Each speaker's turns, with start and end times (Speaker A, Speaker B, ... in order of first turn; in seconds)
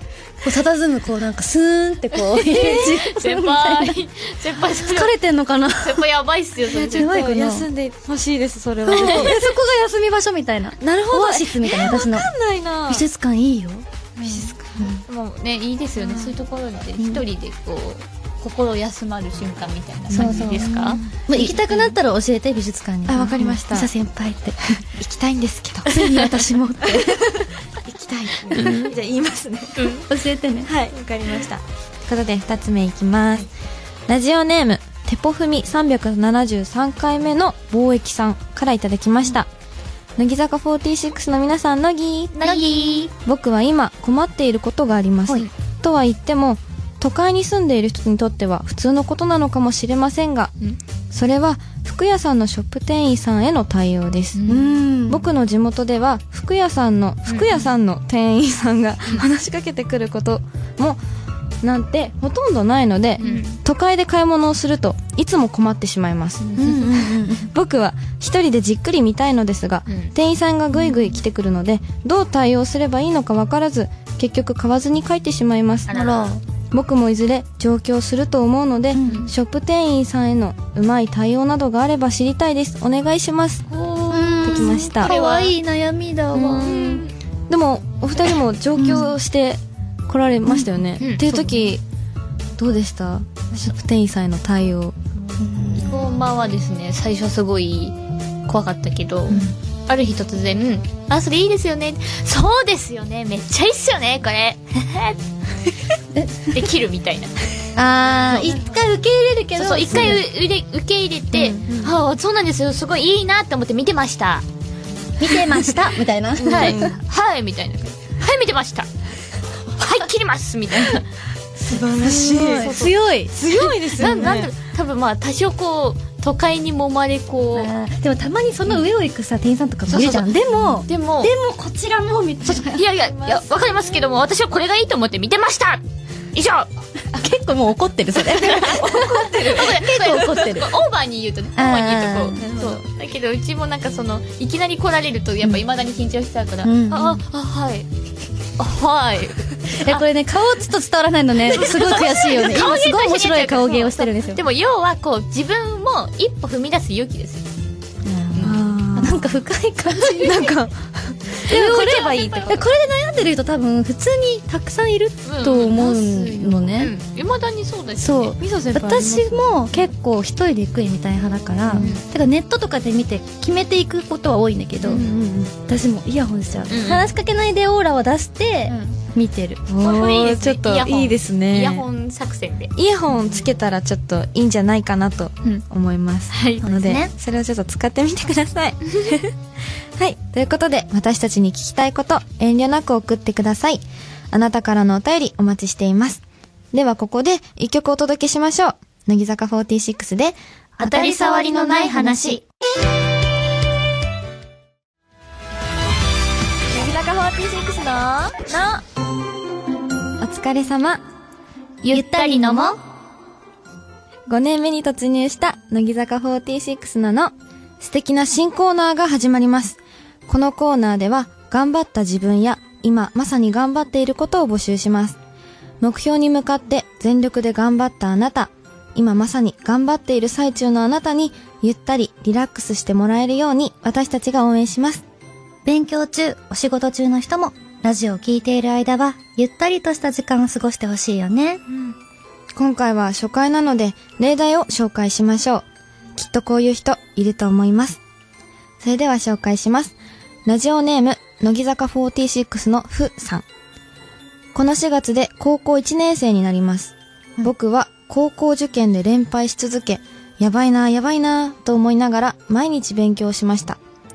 Speaker A: 0.4-4.0, 4.7-6.1, 6.7-7.7, 8.9-12.3, 12.9-15.0, 17.0-17.2, 20.1-24.8, 25.9-27.5, 28.6-28.8, 30.1-30.7, 42.5-42.7, 54.5-55.3, 66.5-67.5, 75.9-76.4, 78.9-79.3, 84.1-86.8, 88.8-89.1, 95.4-96.2, 106.1-106.7, 107.8-110.2, 115.2-116.9, 121.7-123.3, 127.5-132.8, 137.1-140.7, 141.6-142.5, 146.6-147.2, 149.7-154.4, 158.0-160.4, 161.5-166.9, 168.0-175.1, 175.7-179.6, 186.6-187.1, 201.0-201.6, 211.9-212.8, 235.6-241.6
Speaker B: 2.1-5.1, 5.8-7.1, 8.9-9.3, 15.1-21.8, 28.5-28.9, 29.8-30.1, 42.3-43.1, 54.4-54.8, 57.3-57.6, 63.2-63.6, 66.4-66.8, 69.9-70.1, 75.9-76.3, 83.7-85.5, 86.3-87.1, 91.0-91.3, 95.8-98.0, 98.5-105.2, 106.5-107.3, 108.3-108.5, 109.5-114.4, 116.4-118.9, 119.8-121.1, 122.3-122.9, 123.5-127.7, 129.9-130.3, 130.9-131.3, 132.4-135.8, 136.3-136.7, 138.2-147.9, 148.6-150.0, 151.5-157.4, 158.3-158.6, 159.9-160.6, 161.4-162.6, 165.2-168.4, 171.7-172.0, 174.9-175.1, 176.7-177.1, 178.7-178.9, 179.8-182.7, 186.3-186.6, 200.8-202.4, 211.8-212.8
Speaker C: 2.6-2.9, 6.7-9.5, 10.8-13.0, 14.2-14.9, 16.0-16.3, 20.1-20.9, 23.1-23.9, 24.8-27.2, 27.8-29.9, 30.6-33.5, 34.1-39.5, 40.2-50.5, 51.1-54.4, 55.1-61.0, 61.6-75.9, 76.7-83.6, 84.4-85.1, 86.3-91.8, 92.6-95.0, 111.3-112.0, 116.4-117.0, 121.6-124.5, 133.0-134.0, 138.7-139.7, 142.4-142.8, 158.4-159.3, 160.1-162.6, 168.4-169.5, 171.7-171.9, 174.8-175.5, 179.7-181.9, 182.7-189.3, 189.9-196.2, 196.7-202.4, 206.7-208.8, 210.2-211.0, 214.3-225.2, 225.8-235.0, 242.5-248.0, 248.8-253.4, 254.5-263.8